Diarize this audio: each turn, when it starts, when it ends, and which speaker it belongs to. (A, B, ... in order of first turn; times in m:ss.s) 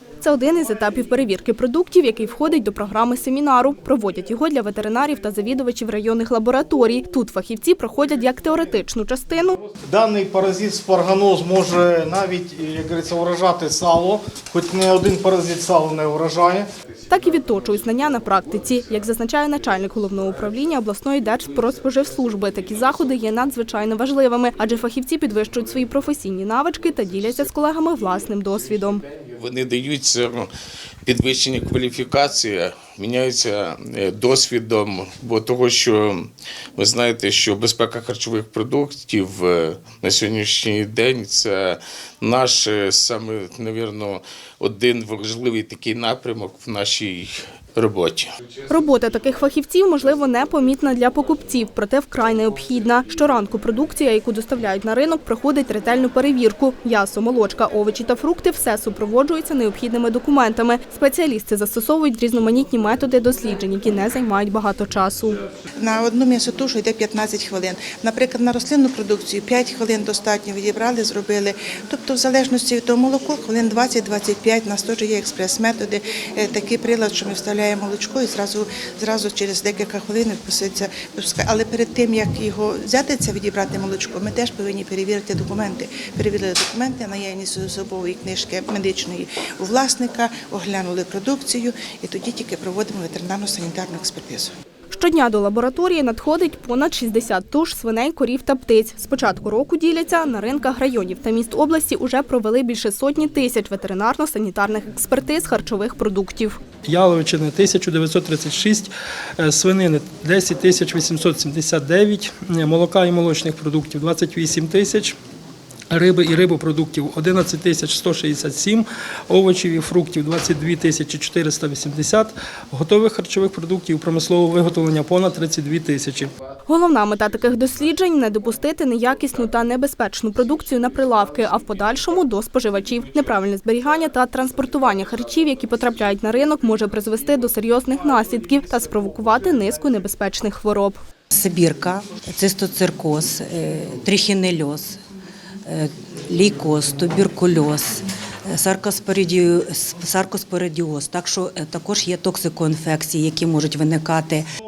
0:00.2-0:09.6 A
0:09.8-0:16.7 B
0:17.1-0:29.0 A
0:29.4-0:30.5 C
0:31.1-0:48.3 C
0:48.7-1:05.4 A
1:05.8-1:34.5 D
1:34.9-1:46.6 A
1:46.9-1:55.2 E
1:55.9-2:06.3 E
2:06.7-2:21.0 A
2:21.3-2:25.0 F
2:25.7-2:34.5 F